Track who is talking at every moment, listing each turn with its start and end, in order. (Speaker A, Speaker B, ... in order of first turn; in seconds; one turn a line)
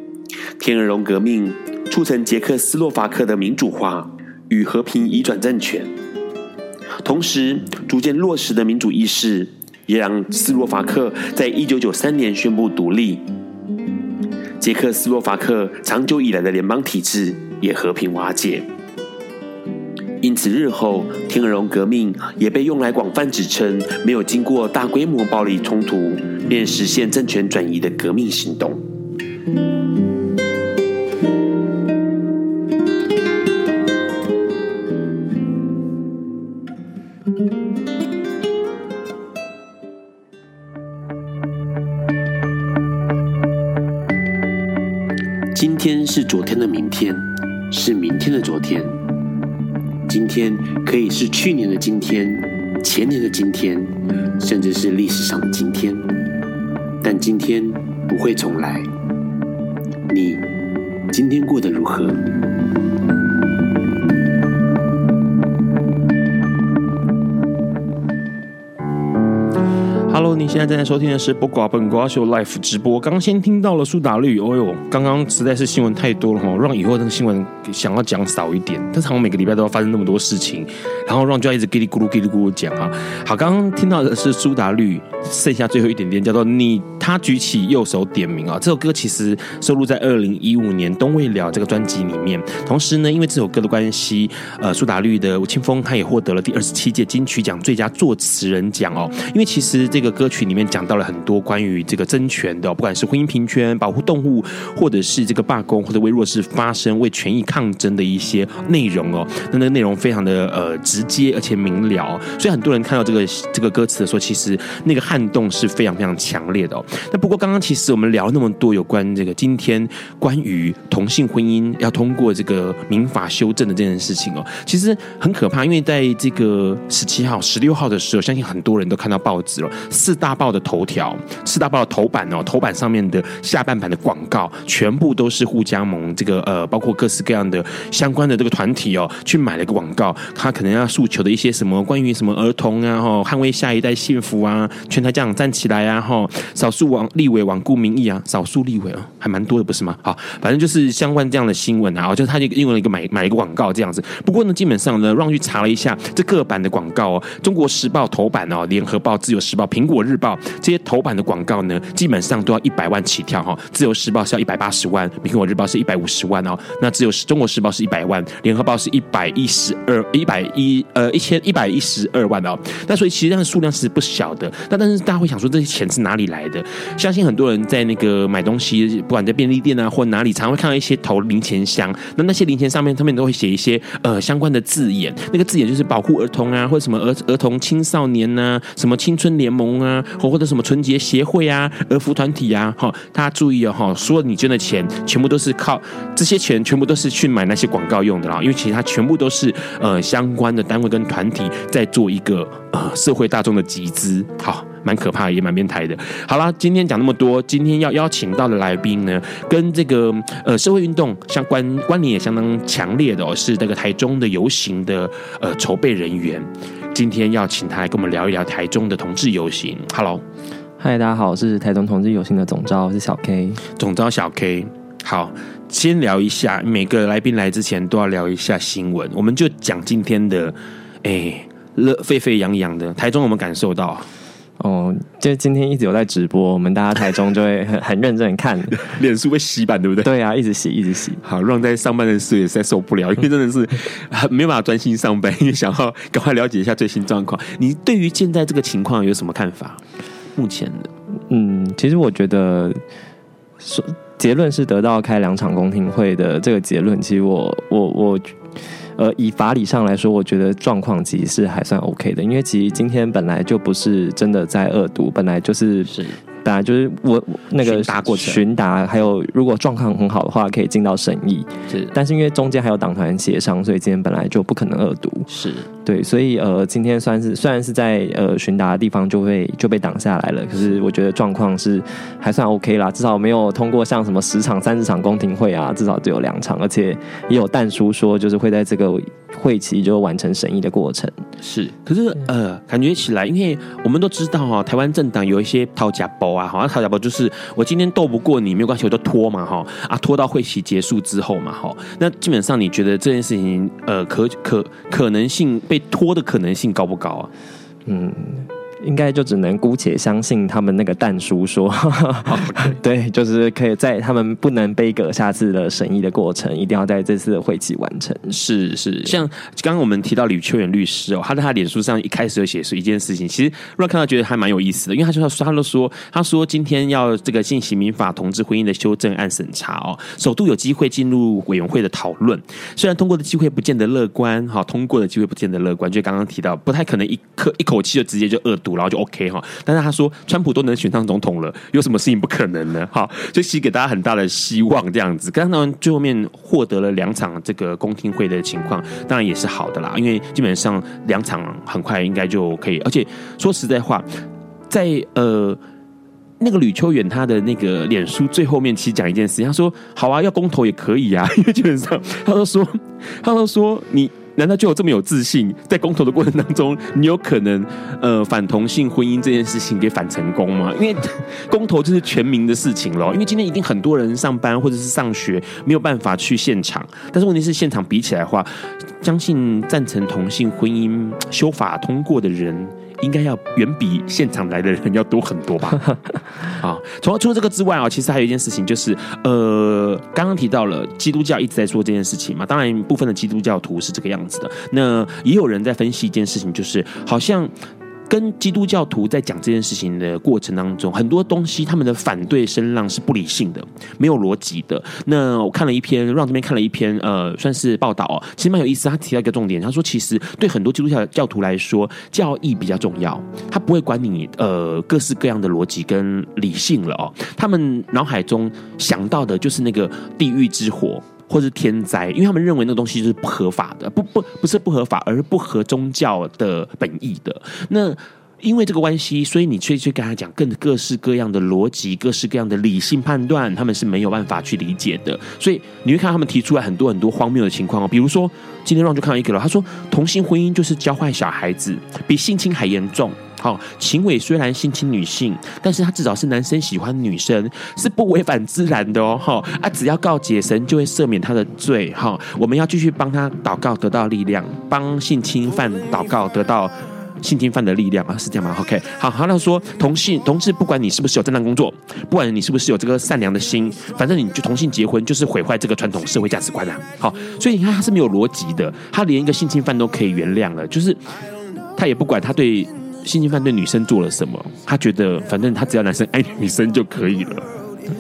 Speaker A: 0.6-4.0
Speaker B: 1.9-5.8
Speaker A: 4.5-5.8
Speaker A: 7.0-13.1
Speaker B: 7.1-8.9
Speaker B: 9.4-13.2
Speaker B: 14.6-18.6
Speaker A: 14.7-18.6
Speaker B: 20.2-28.7
Speaker A: 20.3-28.7
Speaker B: 45.5-48.9
Speaker A: 45.7-46.7
Speaker A: 47.9-48.6
Speaker B: 50.1-53.9
Speaker A: 51.0-51.7
Speaker A: 53.2-53.5
Speaker B: 54.4-56.0
Speaker A: 54.9-55.4
Speaker B: 57.0-58.8
Speaker A: 58.3-58.7
Speaker B: 60.1-60.4
Speaker B: 61.1-62.1
Speaker A: 61.4-61.8
Speaker A: 70.1-220.2
Speaker C: 220.8-223.6
Speaker A: 223.8-234.1
Speaker C: 234.6-238.8
Speaker A: 238.7-240.1
Speaker C: 240.0-241.2
Speaker A: 241.2-249.8
Speaker A: 250.4-250.9
Speaker C: 251.3-252.8
Speaker C: 253.6-258.4
Speaker C: 259.0-275.3
Speaker A: 265.9-266.2
Speaker A: 267.6-268.4
Speaker A: 275.3-275.7
Speaker C: 275.9-291.2
Speaker A: 291.4-307.3
Speaker C: 307.9-318.4
Speaker A: 312.3-312.8
Speaker A: 318.3-354.1
Speaker A: 354.7-355.6
Speaker A: 356.4-385.9
Speaker A: 386.5-397.5
Speaker A: 398.1-471.0
Speaker A: 471.8-477.5